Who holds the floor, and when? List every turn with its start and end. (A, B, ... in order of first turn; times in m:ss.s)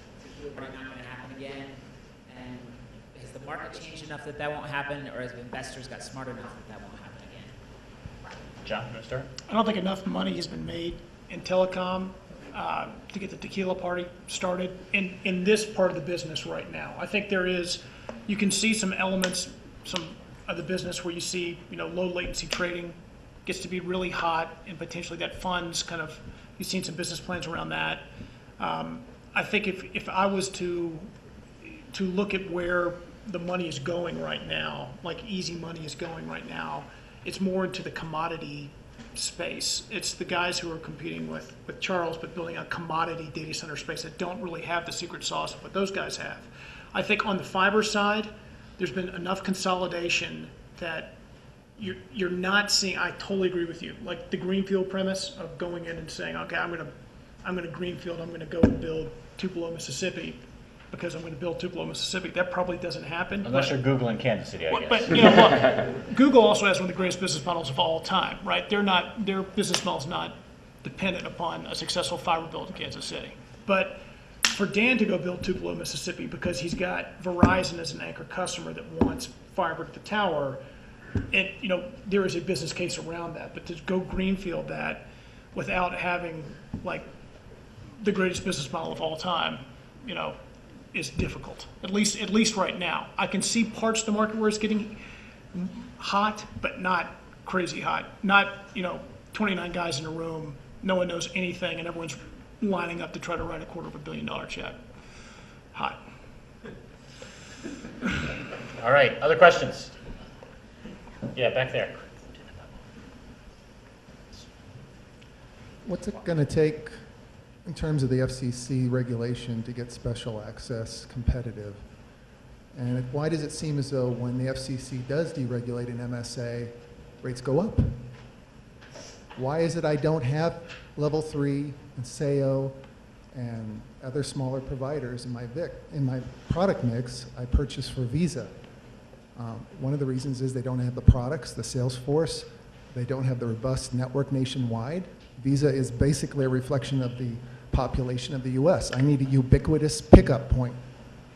0:00.2-0:07.5 A
0:08.6-0:09.3 B
0:09.5-0:28.0 C
0:28.6-0:31.1 C
0:31.6-0:51.1 C
0:51.8-0:56.9 C
0:57.4-1:03.7 C
1:03.4-1:05.3 B
1:04.7-1:14.0 C
1:14.5-1:20.6 C
1:21.3-1:27.0 C
1:28.0-1:30.4 C
1:30.9-1:35.0 C
1:35.5-1:44.8 C
1:45.7-1:46.0 C
1:48.8-1:50.0 B
1:51.3-1:52.6 B
1:55.8-2:02.0 D
2:02.7-2:08.1 D
2:09.3-2:18.7 D
2:19.3-2:31.0 D